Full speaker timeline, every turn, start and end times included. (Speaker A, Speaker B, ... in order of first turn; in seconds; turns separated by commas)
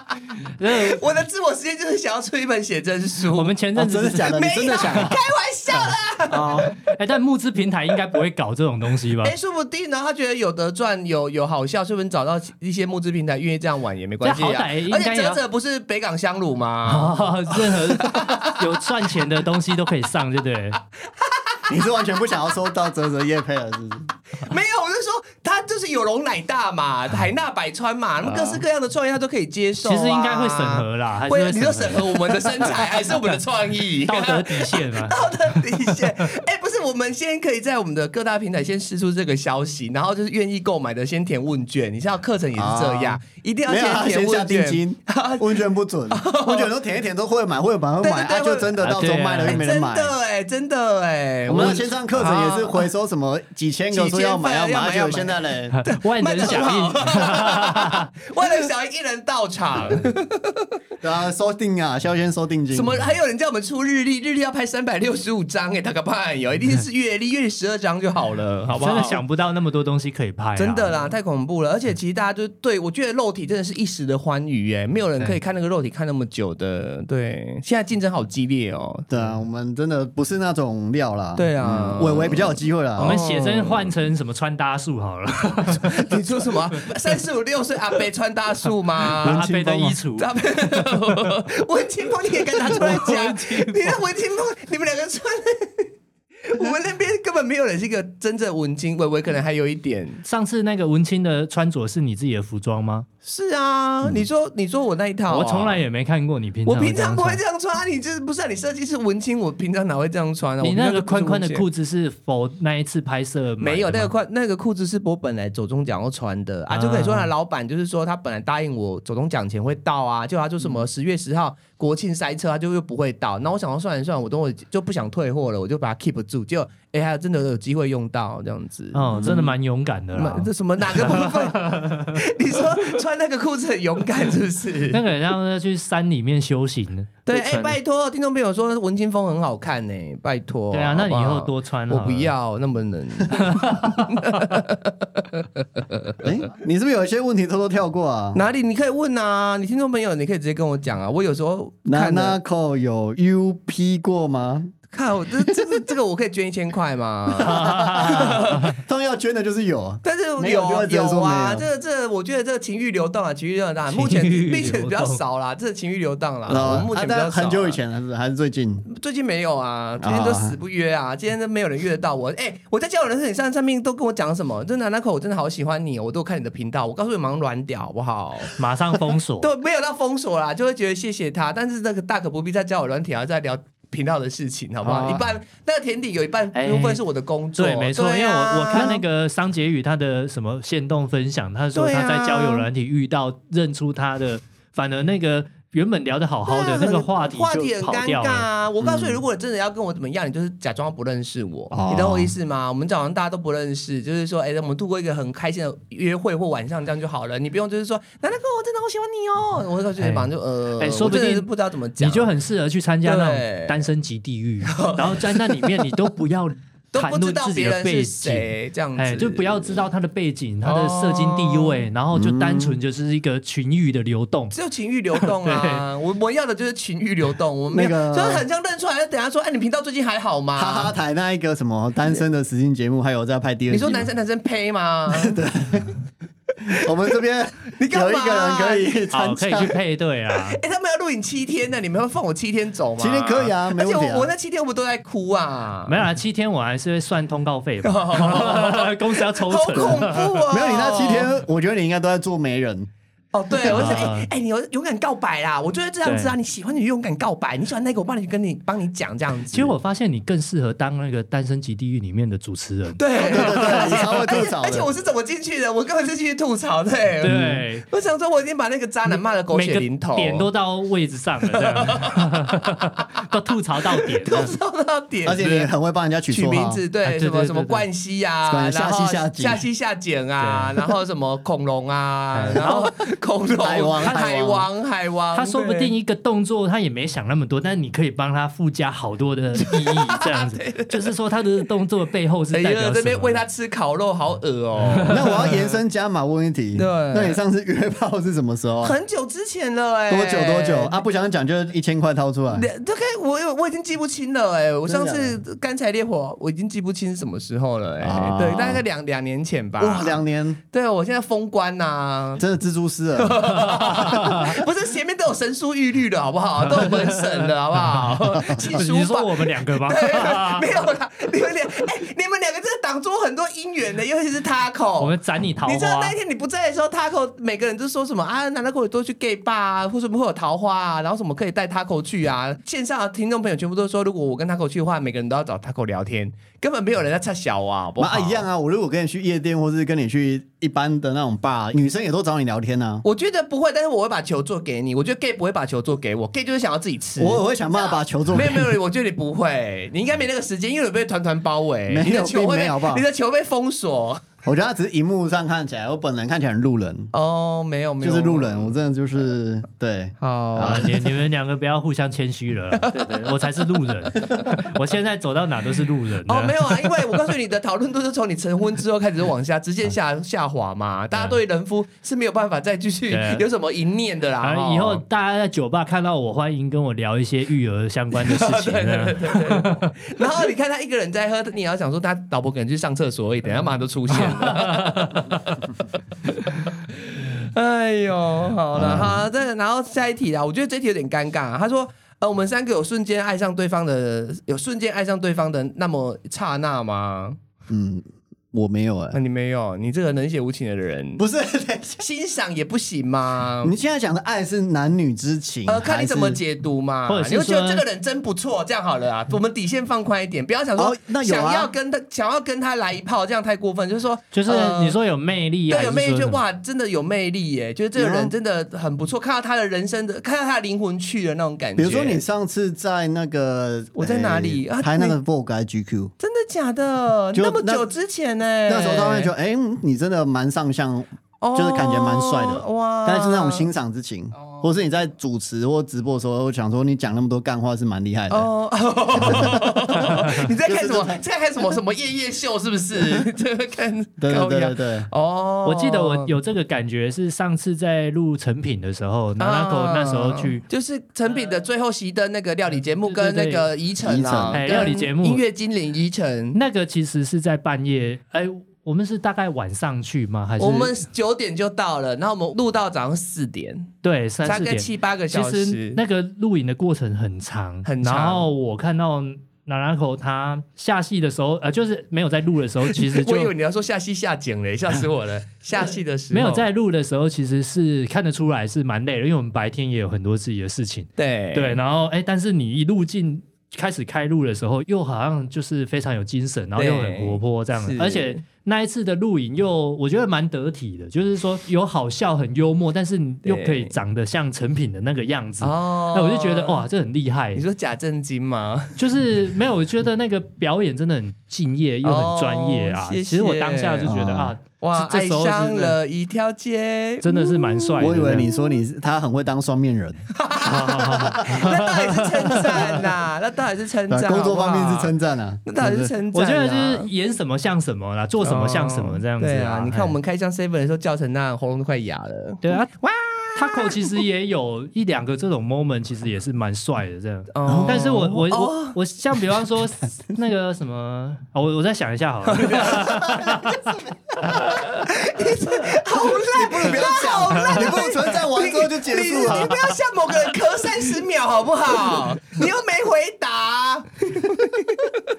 Speaker A: 0.6-1.0, Speaker B: 0.6-3.5, Speaker A: 3.3-5.1, Speaker C: 3.8-5.2, Speaker B: 4.3-6.8, Speaker C: 6.3-6.7, Speaker A: 6.8-9.3, Speaker B: 9.2-18.6, Speaker A: 14.2-15.4, Speaker A: 16.8-20.8, Speaker B: 21.2-21.7, Speaker C: 21.7-24.1, Speaker B: 24.3-46.7, Speaker A: 29.8-33.2, Speaker A: 34.0-36.3, Speaker C: 42.5-50.1, Speaker B: 48.0-48.8, Speaker A: 48.8-49.6, Speaker B: 49.5-52.9, Speaker C: 51.5-55.8, Speaker B: 53.9-60.7, Speaker A: 55.7-58.1, Speaker C: 61.0-63.1, Speaker B: 62.7-69.2, Speaker A: 68.7-71.0, Speaker B: 70.6-79.1, Speaker C: 79.1-83.2, Speaker B: 81.3-83.9, Speaker A: 83.0-86.3, Speaker B: 85.6-89.5, Speaker C: 89.2-90.0, Speaker A: 89.2-90.8, Speaker B: 90.2-95.9, Speaker A: 92.5-94.0, Speaker B: 96.4-100.2, Speaker A: 100.2-103.1, Speaker B: 103.2-105.8, Speaker A: 105.3-107.4, Speaker B: 106.7-111.6, Speaker A: 110.6-114.1, Speaker B: 113.6-129.3, Speaker A: 116.7-117.3, Speaker A: 128.9-132.2, Speaker C: 129.1-129.5, Speaker B: 130.1-135.0, Speaker A: 134.9-137.8, Speaker B: 137.2-146.2, Speaker A: 140.7-142.3, Speaker A: 143.4-144.2, Speaker C: 146.2-148.4, Speaker B: 148.3-152.4, Speaker C: 151.8-154.7, Speaker B: 154.9-158.7, Speaker A: 157.4-158.6, Speaker C: 157.5-161.6, Speaker B: 160.0-167.8, Speaker A: 163.9-165.2, Speaker C: 166.5-168.8, Speaker B: 168.8-178.5, Speaker C: 170.0-170.5, Speaker A: 178.6-179.5, Speaker B: 179.4-189.0, Speaker A: 184.8-185.2, Speaker A: 186.5-187.0, Speaker A: 187.5-198.5, Speaker B: 191.7-192.7, Speaker B: 196.5-212.3, Speaker C: 198.8-199.2, Speaker C: 201.7-202.3, Speaker A: 210.0-211.5, Speaker A: 212.0-224.5, Speaker B: 213.0-213.8, Speaker B: 214.7-215.9, Speaker B: 216.9-219.8, Speaker B: 220.6-221.8, Speaker C: 222.1-222.8, Speaker B: 224.5-230.9, Speaker A: 225.2-225.8, Speaker C: 227.7-228.4, Speaker C: 230.6-234.1, Speaker B: 233.7-235.4, Speaker C: 235.1-235.9, Speaker C: 236.6-239.8, Speaker B: 237.7-238.9, Speaker A: 239.1-240.6, Speaker B: 240.3-246.0, Speaker C: 243.0-244.3, Speaker A: 245.9-250.4, Speaker B: 247.8-251.3, Speaker C: 250.5-252.9, Speaker B: 253.3-259.7, Speaker C: 253.6-254.1, Speaker A: 253.7-254.3, Speaker A: 256.0-256.4, Speaker A: 259.5-264.1, Speaker B: 263.0-270.4, Speaker C: 263.2-264.9, Speaker A: 267.2-267.8, Speaker C: 267.2-267.6, Speaker A: 269.1-274.5, Speaker B: 271.5-273.0, Speaker B: 273.9-275.7, Speaker C: 275.2-276.8, Speaker B: 276.3-285.9, Speaker A: 277.0-277.9, Speaker C: 278.5-279.6, Speaker A: 280.4-280.9, Speaker A: 282.3-282.9, Speaker C: 283.6-284.6, Speaker A: 284.0-284.3, Speaker A: 285.3-293.4, Speaker B: 289.6-291.1, Speaker B: 292.5-295.8, Speaker A: 294.9-295.3, Speaker C: 295.1-298.9, Speaker B: 296.8-297.4, Speaker B: 298.8-301.0, Speaker C: 300.1-302.7, Speaker B: 302.5-312.4, Speaker C: 304.9-305.4, Speaker C: 308.0-308.8, Speaker C: 309.8-310.6, Speaker C: 312.4-314.1, Speaker B: 313.2-325.1, Speaker A: 313.8-314.6, Speaker A: 316.8-317.4, Speaker A: 318.6-320.8, Speaker A: 325.0-326.1, Speaker B: 325.6-338.4, Speaker C: 338.0-343.0, Speaker B: 343.0-354.2, Speaker C: 347.2-348.8, Speaker C: 351.9-353.0, Speaker C: 354.4-357.1, Speaker B: 357.1-358.8, Speaker C: 358.0-360.9, Speaker B: 360.2-360.9, Speaker A: 360.6-366.9, Speaker B: 362.7-363.3, Speaker B: 366.3-375.0, Speaker A: 371.1-371.4, Speaker A: 373.1-373.4, Speaker A: 374.4-380.1, Speaker B: 378.1-385.2, Speaker A: 384.3-385.4, Speaker B: 387.1-397.4, Speaker C: 388.7-389.2, Speaker C: 397.7-399.2, Speaker B: 399.1-401.2, Speaker C: 401.2-402.0, Speaker B: 402.0-403.7, Speaker C: 403.6-406.4, Speaker B: 405.7-415.0, Speaker A: 407.1-407.8, Speaker C: 410.8-411.7, Speaker A: 414.3-416.4, Speaker B: 415.7-422.2, Speaker C: 417.9-418.3, Speaker C: 421.8-426.1, Speaker B: 423.9-425.2, Speaker B: 426.2-429.3, Speaker C: 427.3-427.9, Speaker C: 428.7-438.5, Speaker B: 431.4-433.7, Speaker B: 434.3-434.7, Speaker B: 438.3-446.3, Speaker C: 439.1-441.2, Speaker C: 444.2-445.1, Speaker A: 445.6-450.6, Speaker B: 449.4-456.6, Speaker A: 453.0-453.7, Speaker C: 454.0-454.9, Speaker A: 454.5-455.4, Speaker A: 456.5-460.9, Speaker B: 460.6-463.9, Speaker A: 464.0-473.5, Speaker B: 464.4-466.0, Speaker B: 467.8-468.5, Speaker B: 472.9-476.6, Speaker A: 476.3-497.6, Speaker B: 481.2-481.8, Speaker B: 486.8-488.4, Speaker B: 493.4-494.0, Speaker B: 495.6-496.9, Speaker B: 497.5-499.0, Speaker A: 499.0-506.0, Speaker B: 502.0-504.1, Speaker C: 504.0-504.5, Speaker B: 504.8-508.6, Speaker A: 507.2-508.5, Speaker C: 508.0-510.2, Speaker B: 510.3-515.1, Speaker A: 510.6-513.0, Speaker C: 511.1-511.6, Speaker C: 514.1-516.1, Speaker B: 515.6-517.1, Speaker A: 516.3-520.1, Speaker B: 518.4-524.2, Speaker A: 522.6-522.9, Speaker A: 523.5-533.8, Speaker B: 527.5-529.0, Speaker B: 532.5-545.2, Speaker C: 533.0-533.7, Speaker C: 536.2-539.9